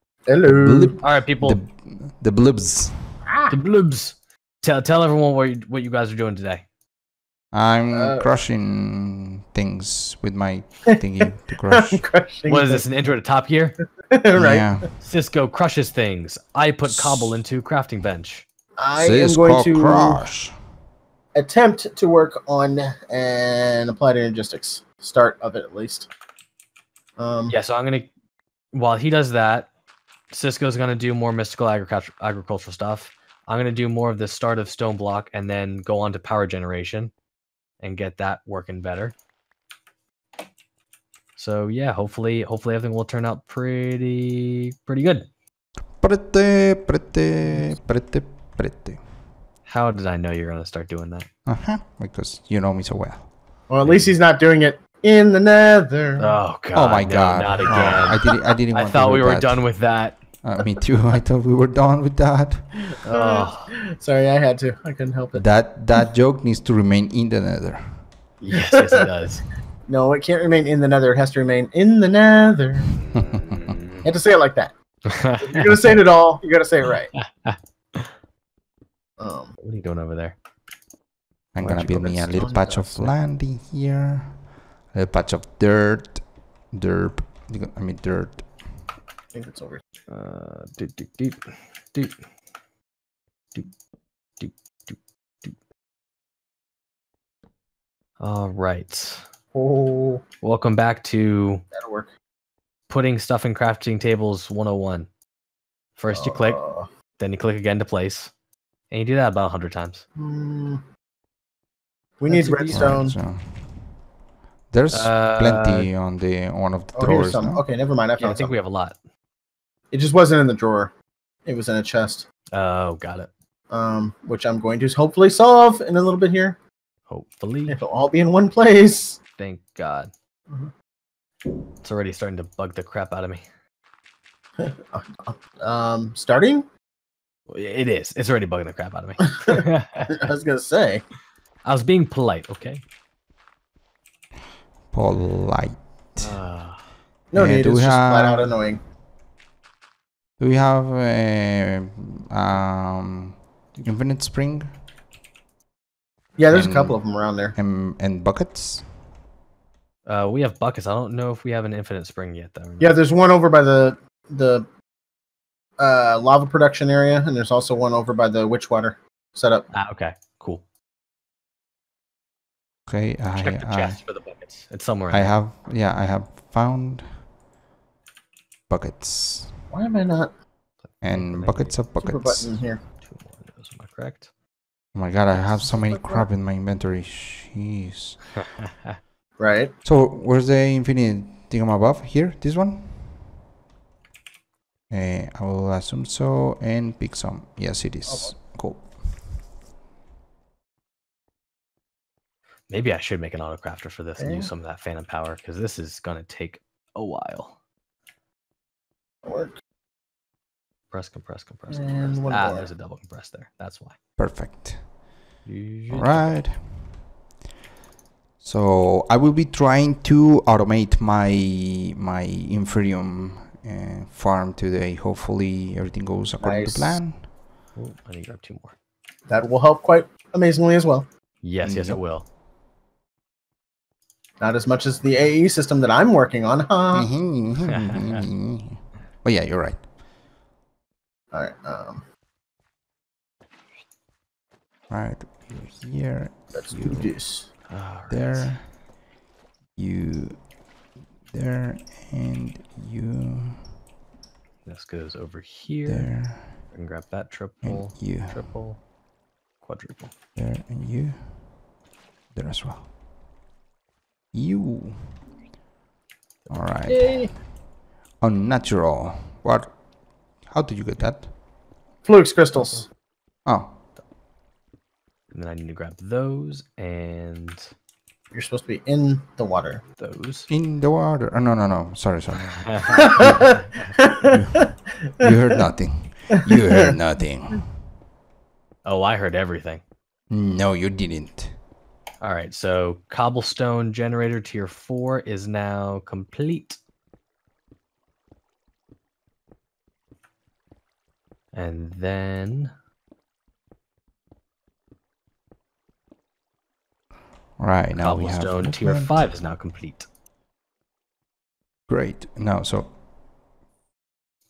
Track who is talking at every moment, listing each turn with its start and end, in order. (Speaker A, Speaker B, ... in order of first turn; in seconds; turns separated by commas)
Speaker A: 0.3-1.0, Speaker B: 0.4-3.0, Speaker C: 1.0-1.6, Speaker A: 3.2-3.5, Speaker C: 3.5-6.6, Speaker B: 7.5-12.0, Speaker A: 7.9-8.3, Speaker A: 10.9-12.9, Speaker C: 12.5-13.8, Speaker A: 14.1-14.8, Speaker B: 14.3-14.9, Speaker C: 15.0-18.4, Speaker B: 16.9-17.4, Speaker A: 18.8-20.2, Speaker B: 19.0-20.5, Speaker A: 21.3-26.1, Speaker A: 27.2-27.6, Speaker C: 27.5-28.1, Speaker C: 28.7-29.7, Speaker C: 30.3-37.1, Speaker C: 37.8-39.1, Speaker C: 41.4-45.3, Speaker B: 46.0-49.0, Speaker C: 49.6-51.3, Speaker B: 51.5-53.3, Speaker A: 53.7-56.4, Speaker C: 53.8-54.1, Speaker C: 56.2-60.2, Speaker B: 56.7-59.6, Speaker A: 57.6-58.3, Speaker B: 60.4-62.6, Speaker A: 63.0-65.7, Speaker C: 63.1-63.7, Speaker B: 65.3-68.0, Speaker C: 68.4-69.4, Speaker A: 68.5-69.0, Speaker A: 69.9-73.0, Speaker C: 72.9-74.1, Speaker B: 73.1-73.8, Speaker A: 74.0-74.7, Speaker C: 75.0-76.0, Speaker A: 75.4-77.1, Speaker C: 77.2-78.1, Speaker A: 79.2-79.5, Speaker C: 79.6-80.4, Speaker B: 81.5-88.5, Speaker A: 81.6-83.1, Speaker A: 89.3-89.8, Speaker C: 90.1-92.2, Speaker C: 94.4-95.5, Speaker C: 98.2-99.2, Speaker A: 99.5-100.2, Speaker C: 100.4-101.6, Speaker A: 101.7-102.1, Speaker C: 102.9-105.1, Speaker C: 106.0-106.6, Speaker A: 106.1-106.9, Speaker C: 107.2-108.3, Speaker C: 108.9-110.0, Speaker A: 110.2-110.8, Speaker A: 112.2-113.2, Speaker C: 112.3-113.0, Speaker B: 112.7-113.9, Speaker B: 114.7-117.6, Speaker C: 114.9-115.9, Speaker A: 116.9-118.5, Speaker C: 118.2-119.0, Speaker A: 119.9-120.9, Speaker A: 121.4-122.2, Speaker C: 122.5-123.3, Speaker A: 123.7-126.6, Speaker C: 127.1-127.8, Speaker A: 127.7-129.2, Speaker C: 129.4-130.1, Speaker C: 131.8-133.4, Speaker A: 134.6-136.7, Speaker C: 137.5-140.3, Speaker A: 139.2-141.0, Speaker C: 141.6-142.8, Speaker B: 144.9-146.4, Speaker C: 146.2-146.8, Speaker A: 147.3-148.8, Speaker B: 147.3-148.5, Speaker B: 150.4-154.7, Speaker A: 156.4-157.6, Speaker B: 156.5-157.0, Speaker B: 157.5-159.0, Speaker C: 160.1-162.9, Speaker A: 162.8-164.7, Speaker A: 165.8-169.7, Speaker C: 169.7-170.6, Speaker B: 172.9-174.0, Speaker C: 173.3-175.4, Speaker B: 175.1-177.2, Speaker B: 178.7-179.5, Speaker A: 179.7-180.3, Speaker C: 180.8-181.8, Speaker B: 181.0-182.6, Speaker A: 181.9-182.8, Speaker C: 183.0-184.3, Speaker B: 184.9-188.2, Speaker A: 185.4-186.3, Speaker C: 188.4-189.0, Speaker A: 189.4-189.7, Speaker B: 189.8-193.2, Speaker B: 194.9-198.9, Speaker A: 198.1-198.3, Speaker C: 202.7-207.6, Speaker A: 204.2-204.5, Speaker A: 209.2-209.6, Speaker C: 210.9-214.0, Speaker A: 211.7-212.7, Speaker B: 214.2-214.9, Speaker C: 215.4-216.4, Speaker B: 215.9-216.8, Speaker B: 218.4-227.3, Speaker A: 226.4-227.0, Speaker C: 227.7-228.7, Speaker A: 229.3-231.1, Speaker C: 231.4-232.3, Speaker B: 231.6-232.0, Speaker A: 234.4-237.1, Speaker B: 236.9-239.9, Speaker C: 237.6-238.2, Speaker A: 241.3-242.0, Speaker B: 244.9-247.2, Speaker A: 246.5-247.5, Speaker C: 247.7-248.6, Speaker B: 248.1-248.7, Speaker B: 249.8-250.4, Speaker B: 251.3-253.6, Speaker C: 254.7-258.8, Speaker B: 255.8-256.6, Speaker B: 257.6-258.5, Speaker C: 259.6-260.1, Speaker B: 260.4-261.3, Speaker B: 262.3-262.9, Speaker B: 264.3-265.2, Speaker B: 266.5-267.4, Speaker A: 266.9-267.3, Speaker B: 268.2-269.8, Speaker B: 270.4-271.3, Speaker A: 272.0-272.9, Speaker C: 272.6-272.8, Speaker B: 273.4-273.8, Speaker C: 275.3-277.7, Speaker A: 278.3-279.8, Speaker C: 280.0-280.5, Speaker B: 280.5-283.6, Speaker C: 282.5-283.9, Speaker A: 282.9-284.6, Speaker B: 284.3-284.7, Speaker B: 285.2-287.6, Speaker A: 286.3-286.9, Speaker C: 288.8-289.8, Speaker B: 290.3-291.5, Speaker C: 292.2-296.8, Speaker C: 301.5-302.7, Speaker B: 307.6-309.3, Speaker C: 307.9-310.1, Speaker B: 311.9-312.9